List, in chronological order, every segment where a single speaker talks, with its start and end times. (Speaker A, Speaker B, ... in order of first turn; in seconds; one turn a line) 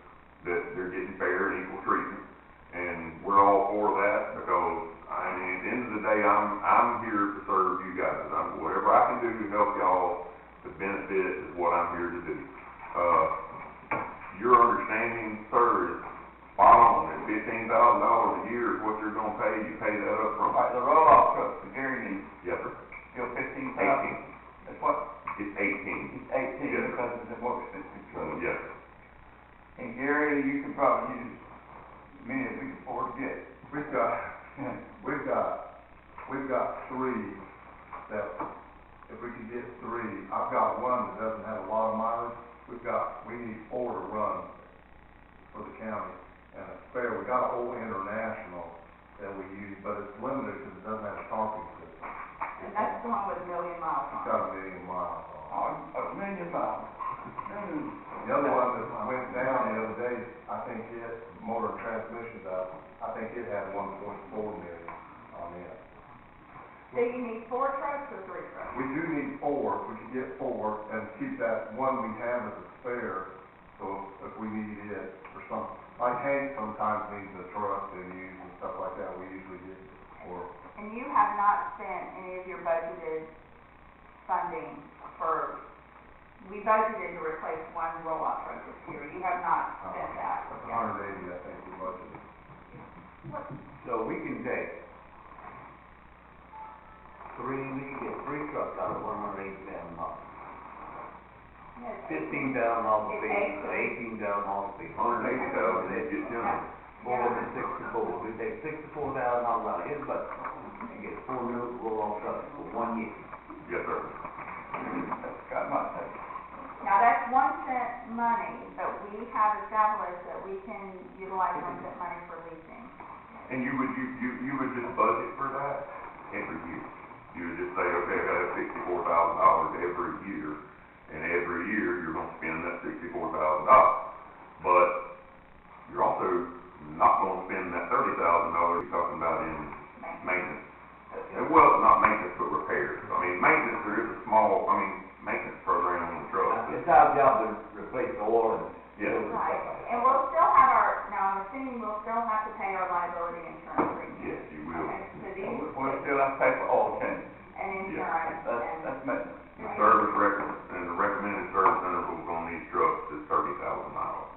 Speaker A: 0.4-13.3
Speaker A: 14.3-20.6
Speaker B: 20.5-22.3
Speaker A: 22.4-22.8
Speaker B: 23.1-25.0
Speaker A: 23.8-24.2
Speaker A: 25.3-27.0
Speaker B: 26.1-28.4
Speaker A: 28.1-28.7
Speaker B: 29.8-31.4
Speaker B: 32.2-33.4
Speaker C: 33.7-34.3
Speaker C: 35.0-35.6
Speaker C: 36.2-37.4
Speaker C: 38.1-38.4
Speaker C: 39.1-44.5
Speaker C: 45.5-53.0
Speaker D: 52.6-54.4
Speaker C: 54.1-55.6
Speaker B: 55.5-56.9
Speaker B: 57.5-58.7
Speaker C: 58.2-65.8
Speaker D: 66.9-68.8
Speaker C: 68.7-80.5
Speaker D: 80.8-83.3
Speaker D: 84.2-85.6
Speaker D: 86.4-90.9
Speaker C: 89.8-92.2
Speaker D: 93.3-93.5
Speaker E: 93.8-94.7
Speaker E: 97.3-100.3
Speaker D: 101.8-104.0
Speaker E: 102.0-113.2
Speaker A: 104.9-106.6
Speaker D: 105.2-107.5
Speaker D: 110.5-111.0
Speaker A: 113.6-114.2
Speaker B: 114.8-116.2
Speaker D: 116.8-122.9
Speaker A: 123.4-134.1
Speaker A: 134.6-135.0
Speaker A: 135.8-140.6
Speaker D: 139.9-140.4
Speaker A: 141.3-146.8
Speaker E: 146.5-150.2
Speaker A: 148.9-149.3
Speaker D: 149.2-156.1
Speaker A: 154.1-155.0
Speaker B: 155.4-157.3
Speaker D: 157.5-159.0
Speaker A: 157.8-158.2
Speaker B: 158.3-159.8
Speaker D: 159.6-160.0
Speaker A: 159.6-164.3